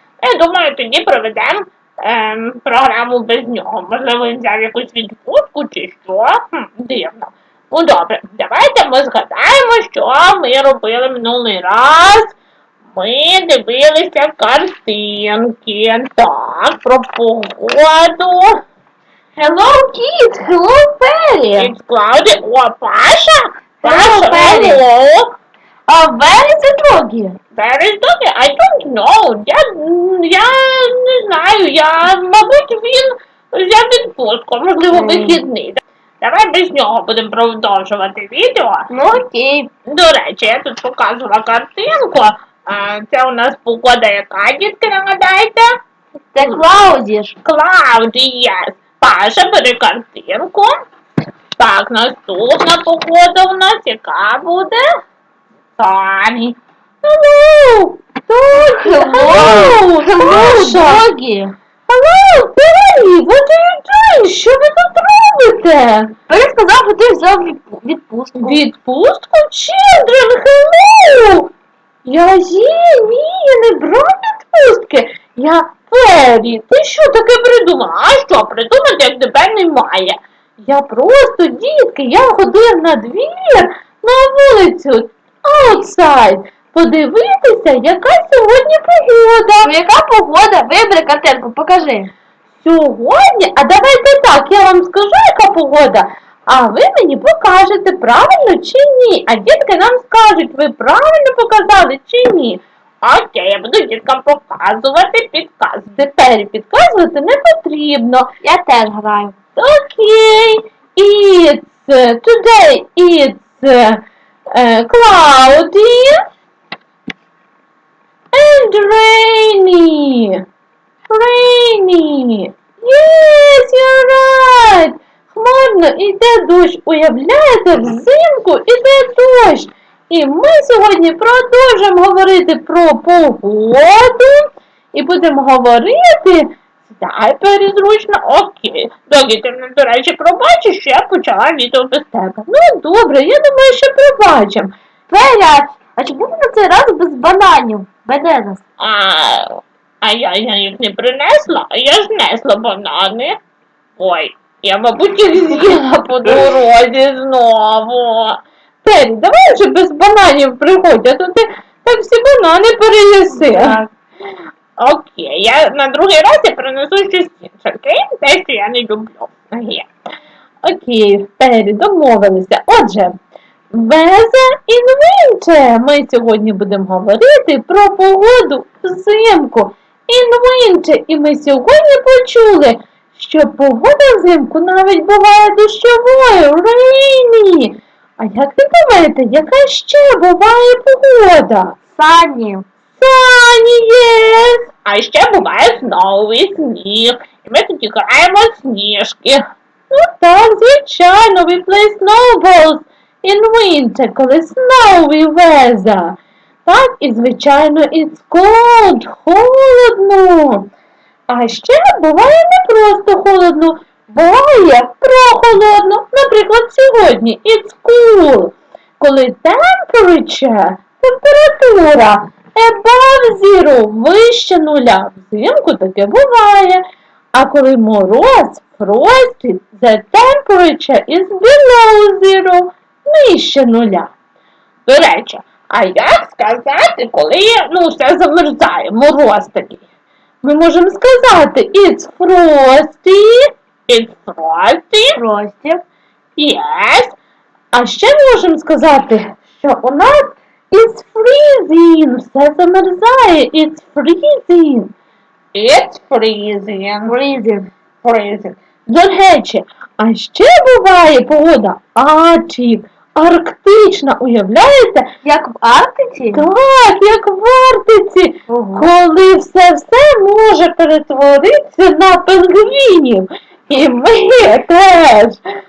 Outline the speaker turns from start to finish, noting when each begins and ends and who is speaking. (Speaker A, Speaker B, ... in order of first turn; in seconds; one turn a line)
Speaker A: 0.2-12.3
Speaker A: 12.9-18.6
Speaker B: 19.4-21.7
Speaker A: 21.6-25.3
Speaker B: 23.8-24.8
Speaker B: 25.9-27.4
Speaker A: 27.5-38.9
Speaker B: 34.9-35.4
Speaker B: 38.9-39.7
Speaker A: 39.9-45.7
Speaker B: 46.3-47.3
Speaker A: 47.4-50.7
Speaker A: 51.6-54.8
Speaker A: 55.8-61.0
Speaker B: 58.5-61.5
Speaker A: 61.9-66.1
Speaker B: 66.3-68.6
Speaker A: 68.4-71.5
Speaker A: 72.0-89.7
Speaker B: 89.6-92.1
Speaker A: 92.6-108.3
Speaker B: 108.4-109.3
Speaker A: 109.5-116.2
Speaker A: 118.3-120.4
Speaker A: 121.1-144.7
Speaker B: 145.1-148.6
Speaker A: 148.8-153.4
Speaker A: 154.0-163.8
Speaker B: 163.3-163.9
Speaker A: 164.8-169.9
Speaker A: 170.6-173.2
Speaker A: 173.7-191.8
Speaker B: 191.9-192.7
Speaker A: 192.9-210.7
Speaker A: 211.3-226.8
Speaker A: 227.3-234.1
Speaker A: 234.9-239.8
Speaker A: 240.4-245.2
Speaker B: 245.1-245.8
Speaker A: 246.3-247.2
Speaker A: 247.7-254.9
Speaker A: 255.5-257.1
Speaker B: 257.0-257.7
Speaker A: 258.0-265.1
Speaker B: 265.2-266.5
Speaker A: 266.3-275.4
Speaker B: 268.5-268.9